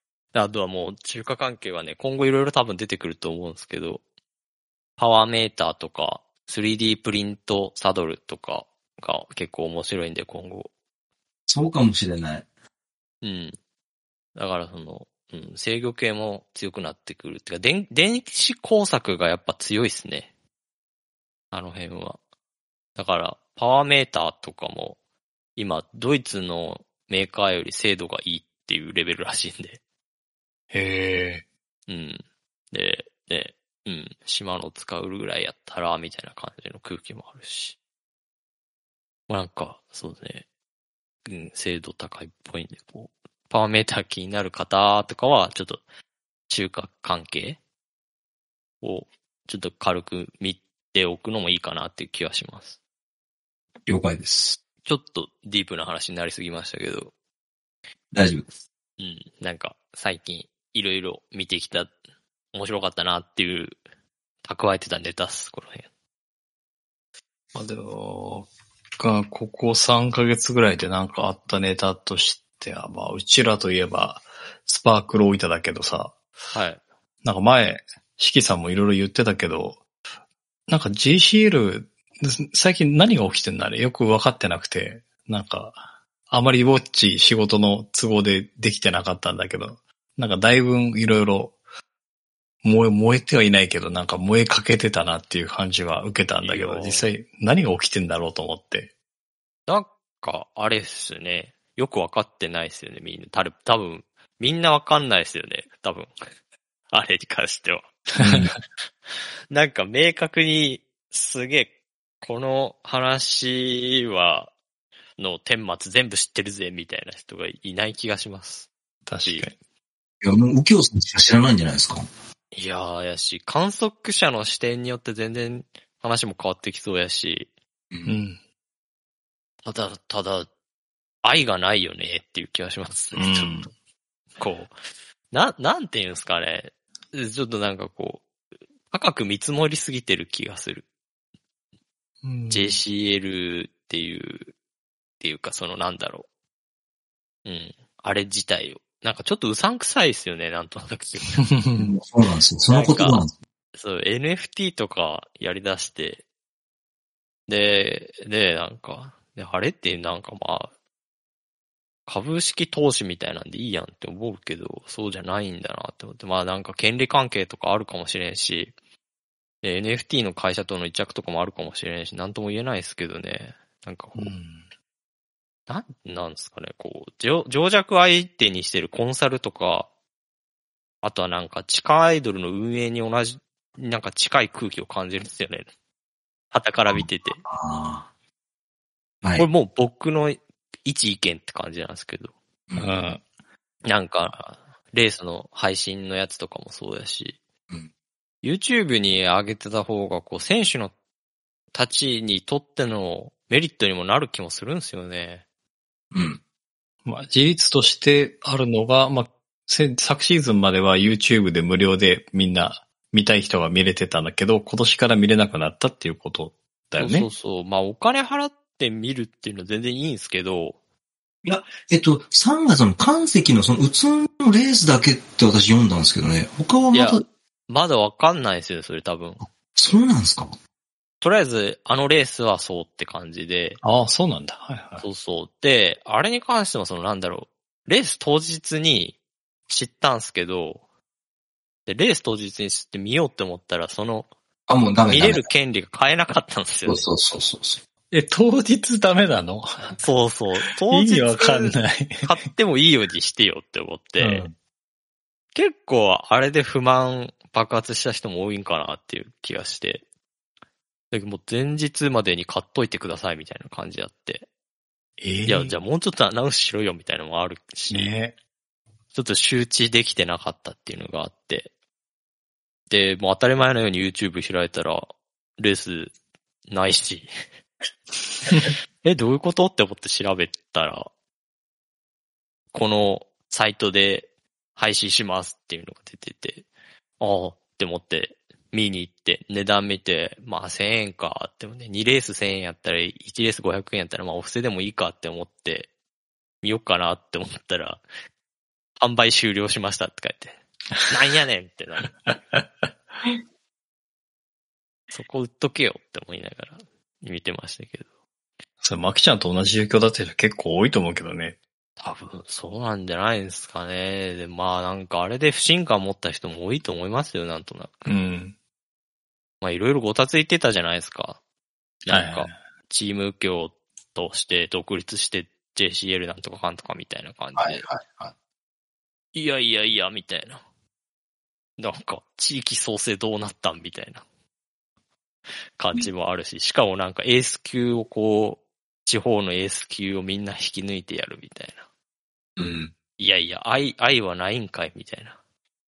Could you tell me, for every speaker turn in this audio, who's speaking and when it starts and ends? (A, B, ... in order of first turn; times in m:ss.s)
0:00.3-0:04.0 A
0:05.0-0:10.7 A
0:11.5-0:12.4 B
0:13.2-0:13.6 A
0:14.3-0:20.3 A
0:21.5-0:22.2 A
0:23.0-0:25.0 A
0:25.6-0:29.8 A
0:30.7-0:31.4 C
0:31.9-0:37.8 A
0:39.3-0:40.4 A
0:41.2-0:45.8 A
0:46.5-0:47.6 A
0:48.8-0:52.8 A
0:53.9-0:54.6 B
0:54.8-0:57.1 A
0:58.1-0:58.5 B
0:59.0-1:01.9 A
1:02.5-1:03.8 A
1:04.4-1:05.8 A
1:07.5-1:08.5 C
1:09.0-1:16.1 C
1:16.5-1:16.8 A
1:17.2-1:19.8 C
1:20.7-1:31.6 C
1:32.6-1:38.9 C
1:36.4-1:37.1 A
1:39.7-1:46.1 A
1:46.9-1:47.9 A
1:48.2-1:48.5 B
1:49.5-1:54.5 A
1:55.2-1:58.7 A
1:59.1-1:59.6 C
2:00.2-2:02.1 B
2:02.5-2:07.5 A
2:07.9-2:08.2 B
2:08.0-2:08.4 C
2:09.6-2:10.5 A
2:11.2-2:13.6 A
2:13.1-2:13.7 C
2:14.4-2:14.7 A
2:15.3-2:18.2 A
2:18.9-2:20.8 A
2:22.2-2:22.8 C
2:22.5-2:24.5 A
2:25.2-2:26.3 A
2:27.4-2:31.5 A
2:31.4-2:31.9 C
2:31.8-2:33.3 B
2:32.7-2:33.2 A
2:33.7-2:36.2 A
2:37.5-2:40.7 A
2:42.0-2:48.7 A
2:49.6-2:54.3 A
2:54.2-2:54.6 C
2:55.7-2:59.9 A
3:01.0-3:05.7 A
3:06.5-3:07.4 A
3:06.9-3:08.1 B
3:09.2-3:09.5 B
3:09.4-3:12.3 A
3:12.8-3:13.2 C
3:13.8-3:17.4 A
3:18.4-3:20.9 A
3:21.7-3:25.4 A
3:26.1-3:26.4 B
3:27.0-3:37.3 C
3:37.0-3:40.8 A
3:41.4-3:47.2 B
3:46.9-3:49.4 A
3:49.7-3:50.6 B
3:51.2-3:53.8 A
3:53.8-3:55.0 C
3:55.0-3:59.2 A
3:59.7-4:00.8 A
4:01.9-4:04.3 A
4:04.7-4:05.4 B
4:05.1-4:07.0 A
4:06.8-4:07.8 B
4:08.1-4:09.7 C
4:10.0-4:14.4 A
4:10.9-4:12.3 C
4:14.2-4:14.5 C
4:15.5-4:20.0 A
4:21.1-4:24.4 A
4:25.2-4:25.7 C
4:25.5-4:28.1 A
4:27.9-4:28.3 C
4:29.1-4:31.7 A
4:32.9-4:35.1 A
4:35.6-4:36.1 A
4:36.7-4:37.3 A
4:38.5-4:38.7 C
4:39.0-4:41.1 A
4:42.7-4:46.6 A
4:47.2-4:55.9 A
4:56.6-4:58.0 A
4:59.0-5:02.1 A
5:02.3-5:02.6 C
5:05.1-5:08.1 A
5:08.8-5:11.6 C
5:12.0-5:18.1 A
5:18.1-5:18.6 C
5:19.6-5:21.4 A
5:22.0-5:27.8 A
5:22.1-5:22.5 C
5:27.6-5:28.3 B
5:29.3-5:30.6 A
5:31.8-5:34.2 A
5:35.8-5:41.8 A
5:42.6-5:42.9 B
5:43.2-5:45.4 A